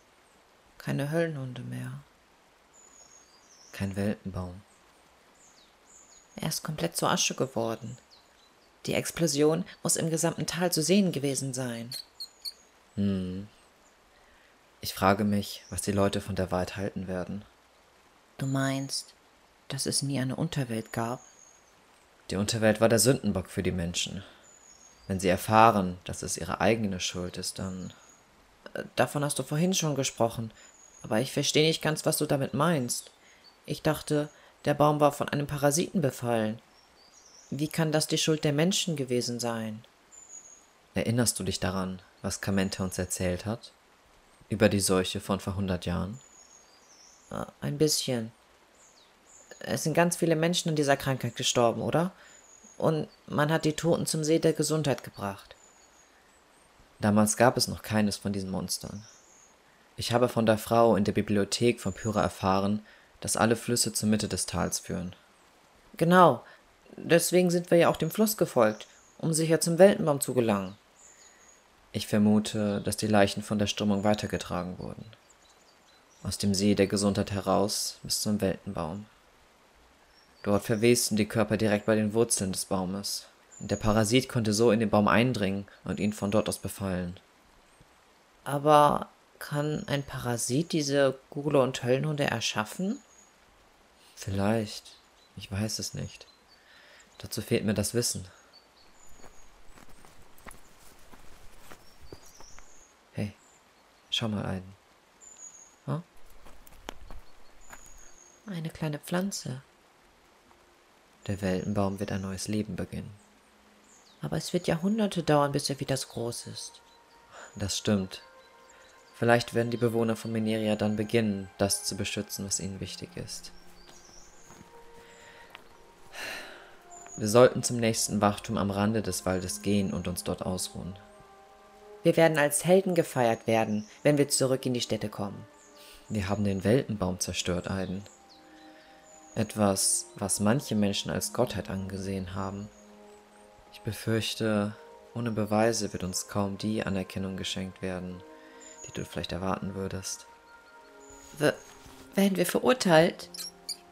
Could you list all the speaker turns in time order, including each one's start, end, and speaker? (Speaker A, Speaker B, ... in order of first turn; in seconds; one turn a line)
Speaker A: 0.8-2.0
Speaker B: 3.7-4.6
Speaker A: 6.3-8.0
Speaker A: 8.8-12.0
Speaker B: 12.9-13.5
Speaker B: 14.8-17.5
Speaker A: 18.4-19.1
Speaker A: 19.7-21.2
Speaker B: 22.3-24.2
Speaker B: 25.1-27.9
Speaker A: 28.7-33.1
Speaker A: 33.6-36.6
Speaker A: 37.5-39.9
Speaker B: 40.9-43.7
Speaker B: 44.5-46.2
Speaker A: 47.3-48.3
Speaker A: 49.6-52.1
Speaker A: 52.8-55.6
Speaker B: 57.0-59.1
Speaker B: 60.0-65.2
Speaker A: 66.0-70.8
Speaker B: 71.9-75.2
Speaker B: 76.2-79.1
Speaker B: 80.4-87.2
Speaker A: 88.4-93.0
Speaker B: 94.2-96.3
Speaker B: 97.2-98.3
Speaker B: 103.1-103.4
Speaker B: 104.1-104.8
Speaker A: 108.5-109.6
Speaker B: 111.2-113.2
Speaker A: 114.2-116.8
Speaker B: 117.5-118.3
Speaker B: 119.1-123.5
Speaker B: 127.2-131.0
Speaker A: 132.0-135.5
Speaker B: 136.1-138.1
Speaker B: 139.3-142.7
Speaker B: 143.7-148.2
Speaker B: 148.8-150.3
Speaker A: 151.3-151.6
Speaker A: 152.1-153.3